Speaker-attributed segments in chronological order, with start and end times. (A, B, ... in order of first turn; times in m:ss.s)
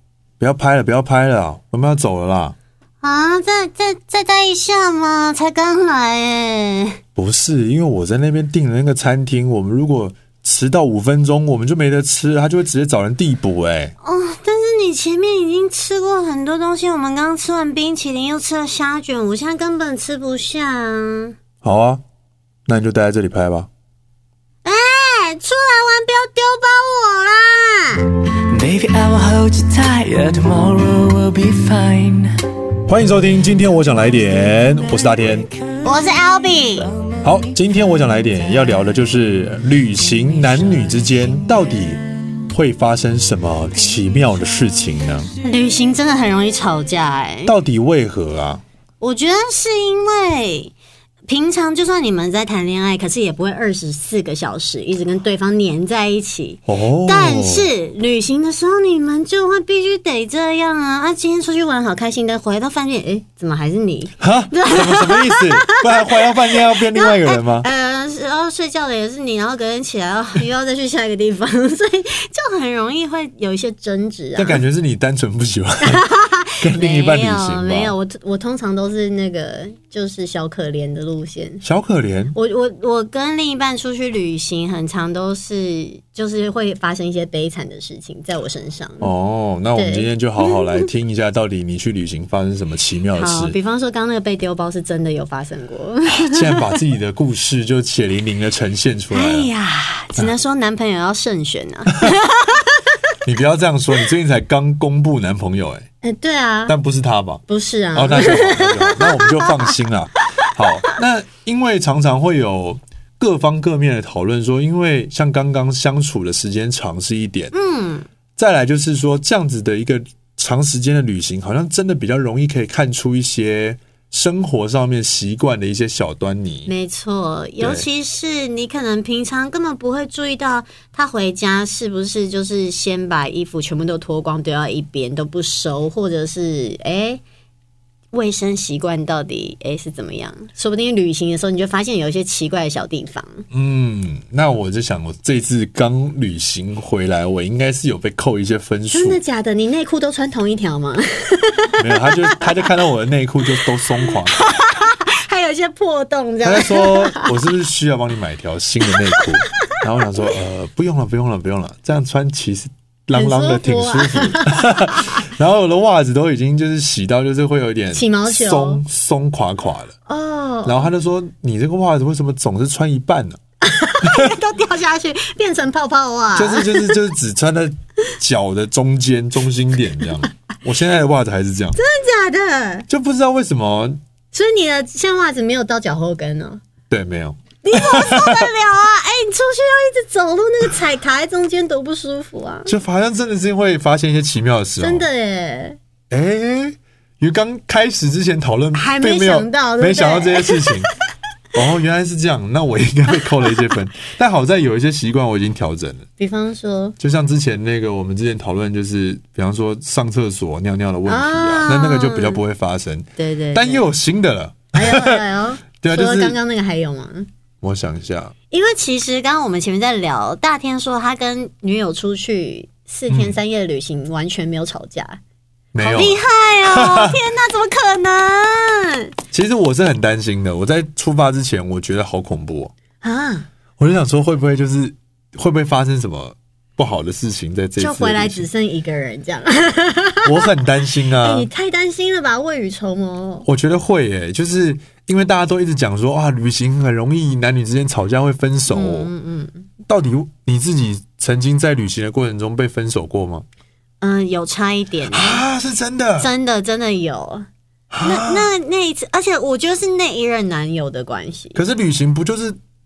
0:00.4-0:02.6 A
0:03.0-0:07.0 B
0:07.2-0:13.9 A
0:14.0-0:21.3 B
0:21.6-0:22.0 A
0:22.7-0:23.7 A
0:24.6-0:28.1 B
0:28.4-0:32.4 C
0:32.9-0:35.5 A
0:35.8-0:36.9 B
0:37.2-0:45.3 A
0:45.4-0:47.5 B
0:47.4-0:48.6 A
0:49.0-0:50.7 B
0:51.2-1:14.6 B
0:56.7-0:57.7 A
1:04.2-1:07.7 A
1:14.4-1:16.0 A
1:15.8-1:21.6 B
1:16.6-1:17.9 A
1:21.6-1:22.3 A
1:22.3-1:29.1 B
1:29.0-1:33.5 A
1:29.8-1:30.6 B
1:33.1-1:36.6 B
1:36.2-1:39.5 A
1:39.1-1:42.9 B
1:43.2-1:45.9 A
1:46.0-1:46.7 B
1:46.7-1:57.5 A
1:47.5-1:49.7 B
1:57.5-1:58.1 B
1:58.4-2:06.7 A
2:06.6-2:17.2 B
2:07.6-2:07.8 A
2:18.1-2:23.4 B
2:23.5-2:29.2 A
2:28.9-2:32.4 B
2:31.8-2:34.4 A
2:33.6-2:37.3 B
2:36.4-2:49.9 A
2:43.1-2:45.2 B
2:47.9-2:48.8 B
2:50.0-2:50.9 B
2:50.6-2:53.4 A
2:53.6-2:56.9 B
2:54.0-2:54.3 A
2:56.3-3:01.8 A
3:01.8-3:02.9 B
3:02.9-3:04.0 A
3:04.3-3:06.6 B
3:06.9-3:08.4 A
3:07.6-3:12.7 B
3:12.6-3:15.0 A
3:14.8-3:15.8 B
3:16.1-3:20.9 A
3:18.7-3:20.9 B
3:21.5-3:26.0 A
3:26.2-3:27.0 B
3:27.0-3:35.2 A
3:31.1-3:32.4 B
3:33.2-3:33.9 B
3:34.7-3:37.3 B
3:35.8-3:36.4 A
3:37.6-3:38.3 A
3:38.5-3:45.2 B
3:43.1-3:43.4 A
3:45.7-3:47.1 A
3:45.8-3:49.1 B
3:49.3-3:52.7 A
3:53.0-3:53.5 B
3:53.8-3:58.4 A
3:57.8-4:00.5 B
4:00.2-4:01.5 A
4:01.2-4:03.5 B
4:03.4-4:09.1 A
4:08.7-4:09.6 B
4:09.9-4:13.4 A
4:14.0-4:15.4 B
4:15.1-4:16.3 A
4:16.2-4:17.5 B
4:17.9-4:18.5 A
4:18.0-4:21.6 B
4:21.5-4:22.6 A